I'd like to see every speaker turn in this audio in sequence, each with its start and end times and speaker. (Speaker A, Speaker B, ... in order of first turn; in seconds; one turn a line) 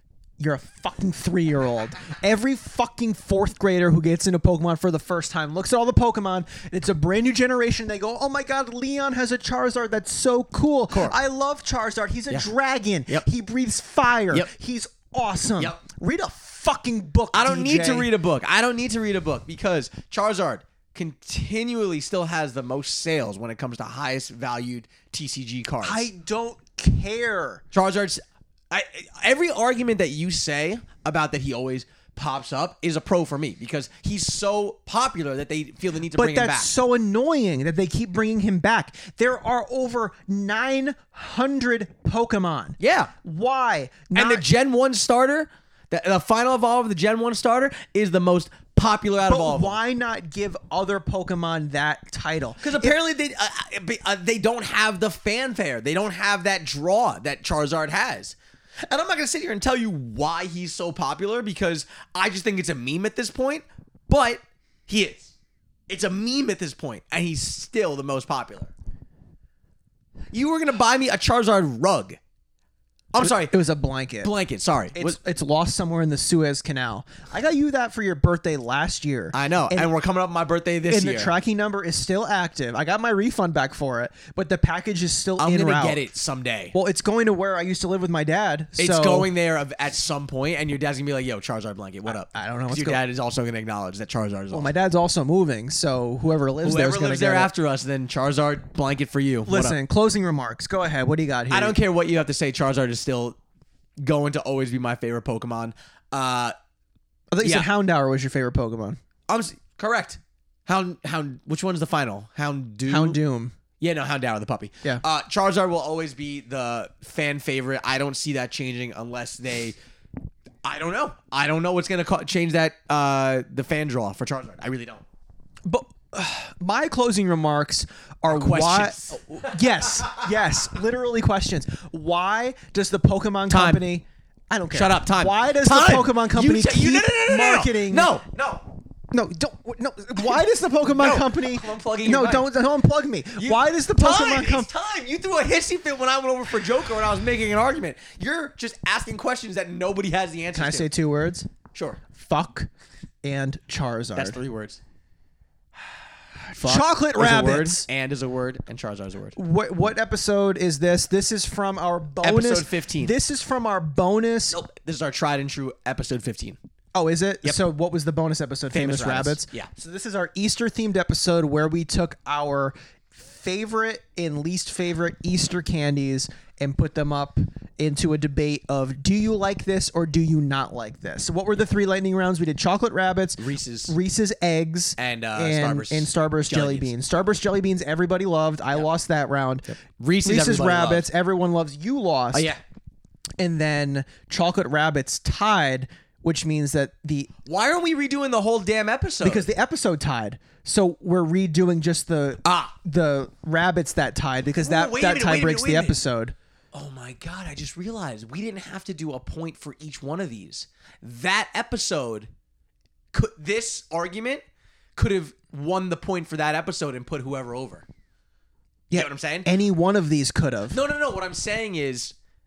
Speaker A: 0.4-18.1
Speaker B: 10.9-11.2
Speaker B: 17.3-26.1
Speaker A: 25.8-27.6
Speaker B: 27.7-36.7
Speaker A: 36.1-44.4
Speaker B: 42.8-43.1
Speaker B: 44.1-49.8
Speaker A: 49.2-52.9
Speaker B: 52.6-65.3
Speaker B: 65.9-68.7
Speaker B: 70.3-72.2
Speaker B: 73.1-73.5
Speaker A: 73.2-74.3
Speaker B: 74.2-75.2
Speaker A: 74.9-79.9
Speaker B: 79.3-81.3
Speaker A: 80.9-86.0
Speaker B: 85.4-86.7
Speaker A: 86.7-89.3
Speaker B: 88.8-94.7
Speaker A: 92.1-93.0
Speaker A: 94.5-97.5
Speaker B: 96.6-99.8
Speaker A: 99.5-101.8
Speaker B: 101.5-103.4
Speaker B: 104.0-106.5
Speaker A: 107.3-109.0
Speaker B: 107.4-107.7
Speaker B: 109.3-113.2
Speaker A: 112.9-113.5
Speaker B: 113.8-119.8
Speaker B: 120.6-125.0
Speaker A: 125.7-138.1
Speaker B: 128.3-130.3
Speaker B: 133.5-133.8
Speaker B: 134.7-138.7
Speaker A: 139.1-144.7
Speaker B: 140.9-142.5
Speaker B: 143.4-150.9
Speaker A: 150.5-151.5
Speaker B: 151.7-152.0
Speaker A: 152.1-152.7
Speaker A: 153.2-154.4
Speaker B: 154.1-154.8
Speaker A: 156.5-157.9
Speaker B: 156.5-159.4
Speaker A: 159.3-164.6
Speaker B: 162.2-163.1
Speaker B: 164.5-166.6
Speaker A: 166.9-192.5
Speaker B: 168.7-169.7
Speaker B: 183.4-183.9
Speaker B: 185.0-186.9
Speaker B: 189.7-191.1
Speaker B: 192.3-192.6
Speaker A: 193.4-197.3
Speaker B: 197.4-199.5
Speaker A: 199.2-206.3
Speaker B: 202.4-202.8
Speaker B: 204.6-206.0
Speaker B: 206.7-212.3
Speaker B: 213.1-214.4
Speaker B: 214.9-217.8
Speaker A: 218.9-220.8
Speaker B: 218.9-219.5
Speaker B: 220.7-222.1